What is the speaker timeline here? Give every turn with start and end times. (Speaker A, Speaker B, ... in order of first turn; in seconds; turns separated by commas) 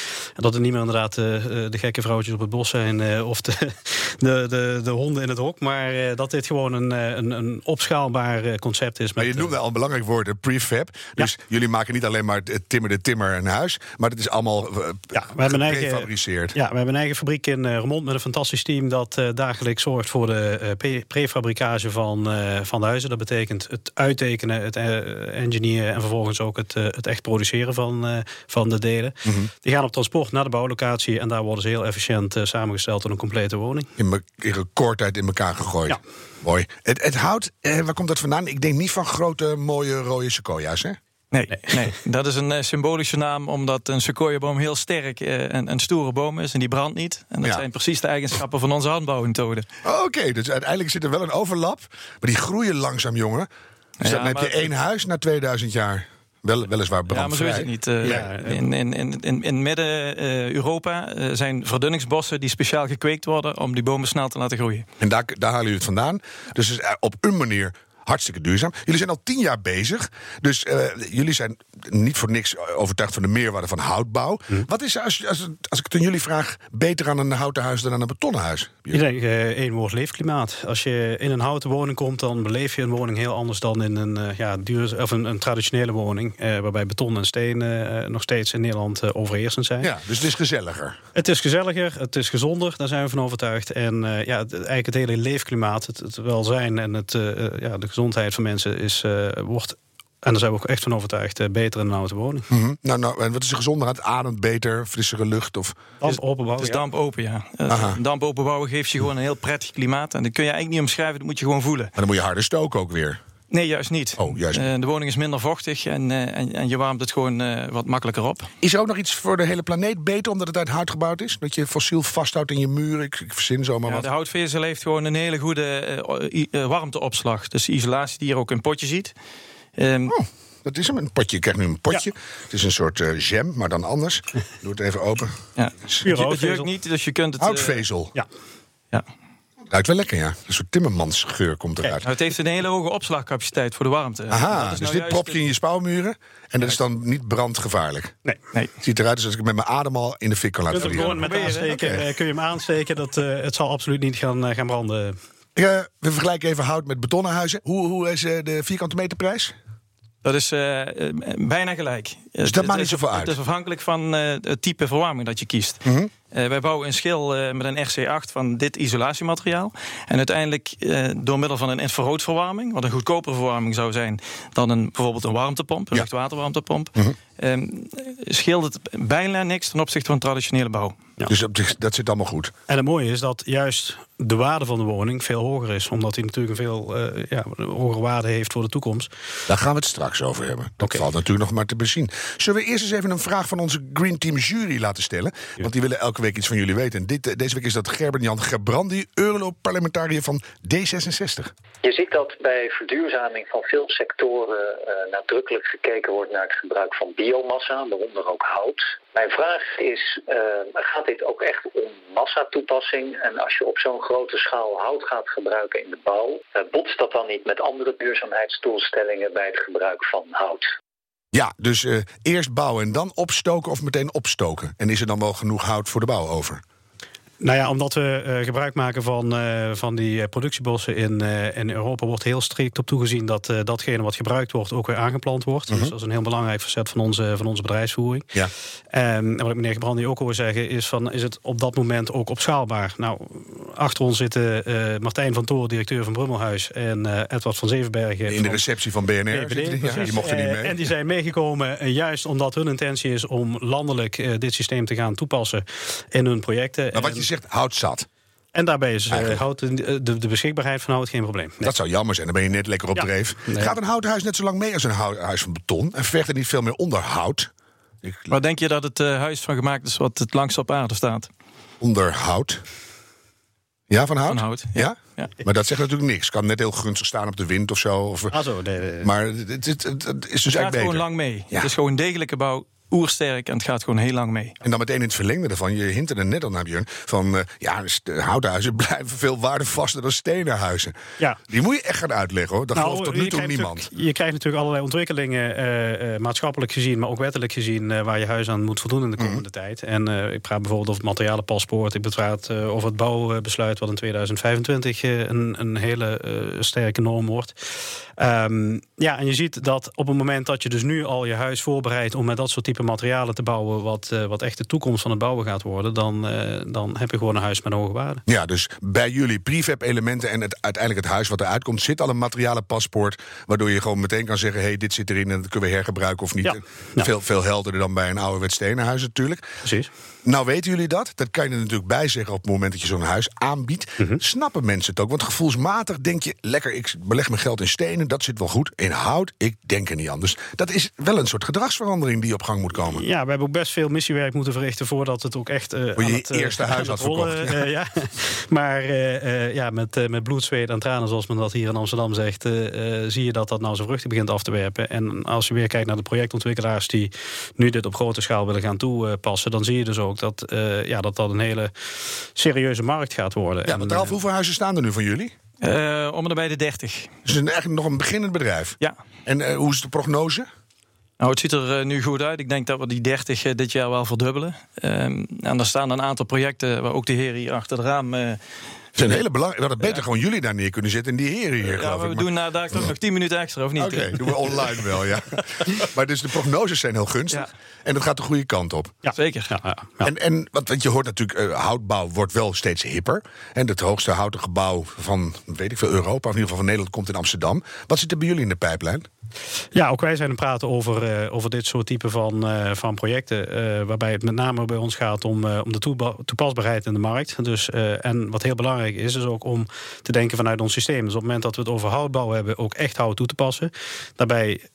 Speaker A: 0.4-9.5, Speaker B: 9.2-16.6, Speaker A: 15.1-33.9, Speaker B: 34.0-41.0, Speaker C: 41.3-49.7, Speaker B: 49.8-53.5, Speaker C: 54.0-54.7, Speaker B: 54.0-58.3, Speaker C: 57.1-64.9, Speaker A: 58.0-58.6, Speaker B: 65.0-79.0, Speaker A: 78.9-89.9, Speaker B: 89.8-91.0, Speaker A: 91.2-102.5, Speaker B: 102.5-105.8, Speaker A: 106.0-106.8, Speaker C: 106.1-111.9, Speaker B: 107.7-108.0, Speaker B: 112.0-113.2, Speaker C: 113.5-118.5, Speaker B: 114.2-114.7, Speaker B: 118.6-124.1, Speaker C: 123.9-129.1, Speaker C: 129.8-130.1, Speaker B: 130.1-136.1, Speaker C: 135.6-137.8, Speaker A: 136.0-136.7, Speaker B: 137.4-138.2, Speaker B: 139.7-142.1, Speaker C: 142.1-145.4, Speaker B: 144.3-148.1, Speaker B: 148.8-151.2, Speaker A: 150.7-155.2, Speaker C: 150.8-152.0, Speaker B: 155.6-159.5, Speaker C: 160.2-181.0, Speaker B: 162.4-163.3, Speaker B: 165.8-166.1, Speaker B: 181.3-182.5, Speaker A: 182.7-189.1, Speaker B: 189.5-201.5, Speaker A: 190.8-191.1, Speaker D: 201.8-220.7, Speaker B: 221.3-226.6, Speaker A: 227.4-238.3, Speaker A: 238.9-248.6, Speaker B: 248.3-250.8, Speaker A: 249.3-257.3, Speaker B: 256.9-258.1, Speaker A: 258.5-261.7, Speaker B: 259.1-259.4, Speaker B: 261.6-267.5, Speaker A: 262.9-263.8, Speaker B: 268.0-268.3, Speaker C: 268.3-271.3, Speaker B: 271.8-272.6, Speaker B: 273.9-278.4, Speaker C: 274.3-275.3, Speaker A: 278.3-279.1, Speaker B: 279.0-281.7, Speaker C: 280.5-284.6, Speaker B: 284.6-290.9, Speaker B: 291.5-293.9, Speaker A: 292.7-307.6, Speaker B: 299.2-299.4, Speaker A: 308.2-318.2, Speaker B: 318.3-329.4, Speaker A: 326.4-327.1, Speaker A: 329.6-329.9, Speaker B: 330.2-343.0, Speaker A: 342.9-364.1, Speaker B: 346.0-347.7, Speaker B: 363.7-365.3, Speaker C: 365.6-367.1, Speaker B: 367.3-370.5, Speaker C: 371.2-378.4, Speaker B: 379.0-382.9, Speaker C: 381.6-384.7, Speaker B: 383.8-388.9, Speaker A: 389.0-390.1, Speaker C: 389.1-389.5, Speaker B: 390.0-399.1, Speaker A: 399.7-414.6